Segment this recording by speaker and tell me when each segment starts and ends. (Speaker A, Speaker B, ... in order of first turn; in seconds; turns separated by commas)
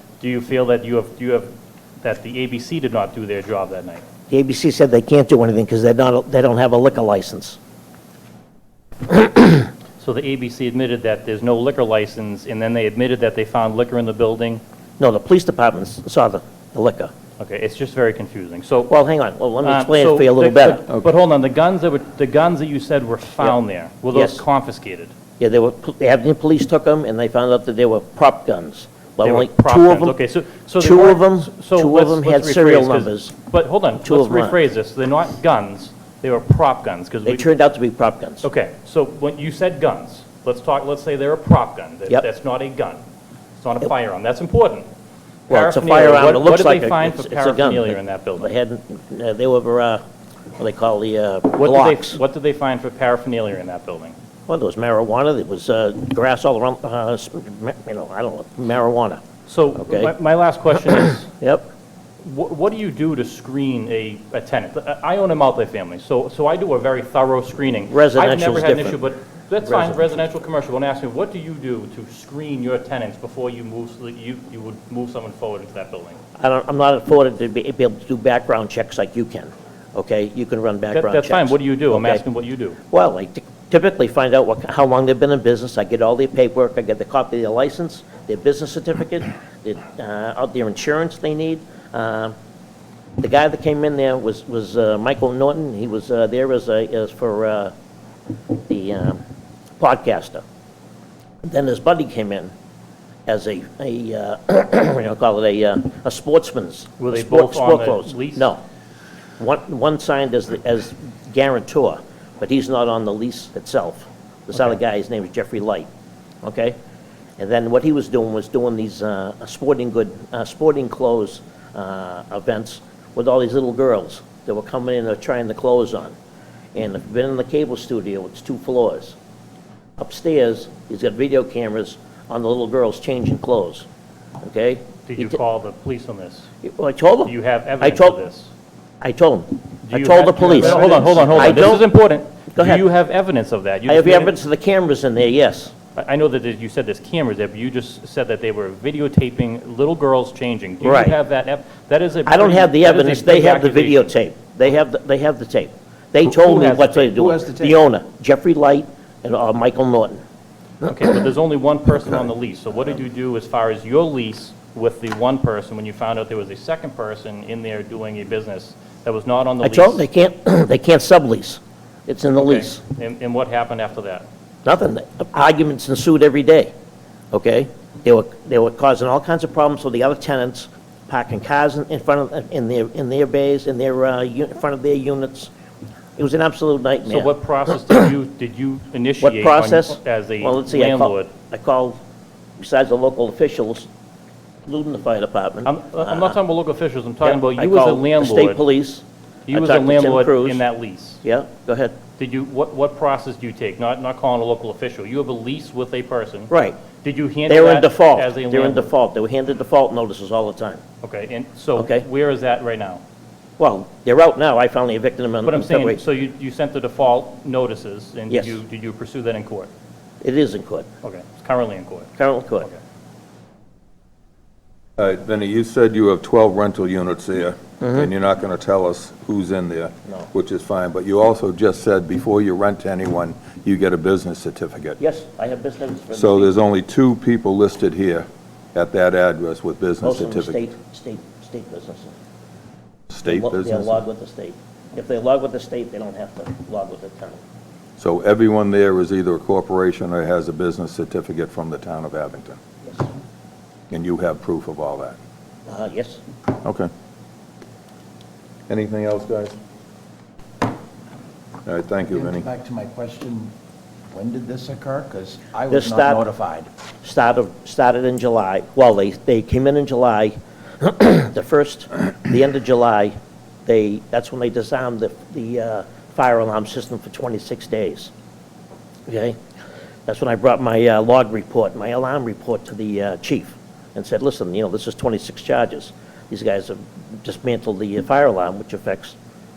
Speaker A: 0.2-1.5, Speaker A: 2.0-4.0, Speaker B: 4.3-7.6, Speaker B: 9.1-9.6, Speaker A: 10.0-14.6, Speaker B: 15.0-17.1, Speaker A: 17.4-18.9, Speaker B: 18.9-20.8, Speaker A: 19.6-25.1, Speaker B: 24.1-24.4, Speaker B: 25.4-30.2, Speaker A: 29.2-37.5, Speaker B: 30.8-33.3, Speaker B: 34.0-34.6, Speaker B: 37.2-38.5, Speaker A: 38.4-43.0, Speaker A: 43.6-44.9, Speaker A: 45.5-48.5, Speaker B: 45.5-50.0, Speaker B: 50.6-52.2, Speaker A: 51.5-54.1, Speaker B: 54.5-59.2, Speaker A: 59.5-61.3, Speaker B: 59.8-60.1, Speaker B: 61.3-61.7, Speaker A: 62.2-76.2, Speaker B: 67.9-69.0, Speaker B: 69.6-70.2, Speaker B: 76.4-82.2, Speaker A: 80.9-82.8, Speaker B: 82.9-92.3, Speaker B: 93.2-97.7, Speaker B: 98.5-99.2, Speaker B: 99.8-100.4, Speaker B: 101.4-102.5, Speaker B: 103.3-108.6, Speaker A: 107.0-108.5, Speaker B: 109.4-115.9, Speaker B: 116.4-116.8, Speaker B: 117.4-126.1, Speaker B: 126.7-129.2, Speaker B: 130.0-133.9, Speaker B: 134.4-135.4, Speaker A: 135.1-136.5, Speaker B: 136.6-138.2, Speaker A: 137.2-138.5, Speaker B: 139.0-141.9, Speaker A: 139.9-144.3, Speaker B: 142.5-142.9, Speaker B: 143.9-145.7, Speaker A: 145.9-154.1, Speaker B: 150.8-151.2, Speaker B: 152.2-160.2, Speaker A: 156.2-157.3, Speaker C: 156.7-157.8, Speaker A: 160.8-170.0, Speaker B: 169.6-172.8, Speaker A: 172.4-174.2, Speaker B: 174.6-176.7, Speaker B: 177.3-185.5, Speaker B: 186.2-188.1, Speaker A: 187.1-191.3, Speaker B: 189.2-192.0, Speaker B: 192.6-193.9, Speaker B: 194.7-196.4, Speaker A: 195.7-198.6, Speaker B: 197.2-200.6, Speaker A: 199.5-201.2, Speaker B: 201.2-201.9, Speaker A: 202.2-206.5, Speaker B: 206.5-206.8, Speaker A: 207.0-208.9, Speaker B: 207.5-210.8, Speaker A: 211.0-213.0, Speaker B: 211.8-212.1, Speaker B: 213.6-216.0, Speaker A: 215.4-219.7, Speaker B: 218.3-218.6, Speaker B: 220.2-220.9, Speaker A: 221.0-222.8, Speaker B: 222.2-222.7, Speaker D: 225.0-235.0, Speaker B: 227.8-228.1, Speaker B: 235.0-236.5, Speaker D: 236.1-240.6, Speaker B: 240.0-242.1, Speaker D: 243.1-244.0, Speaker B: 243.2-247.4, Speaker D: 248.0-252.6, Speaker D: 253.9-255.2, Speaker B: 255.7-256.2, Speaker D: 256.6-256.9, Speaker D: 258.7-259.6, Speaker D: 261.6-262.4, Speaker C: 262.1-263.5, Speaker C: 264.1-266.7, Speaker B: 265.7-266.2, Speaker B: 267.0-273.1, Speaker B: 273.6-278.1, Speaker B: 279.1-279.4, Speaker B: 280.1-289.1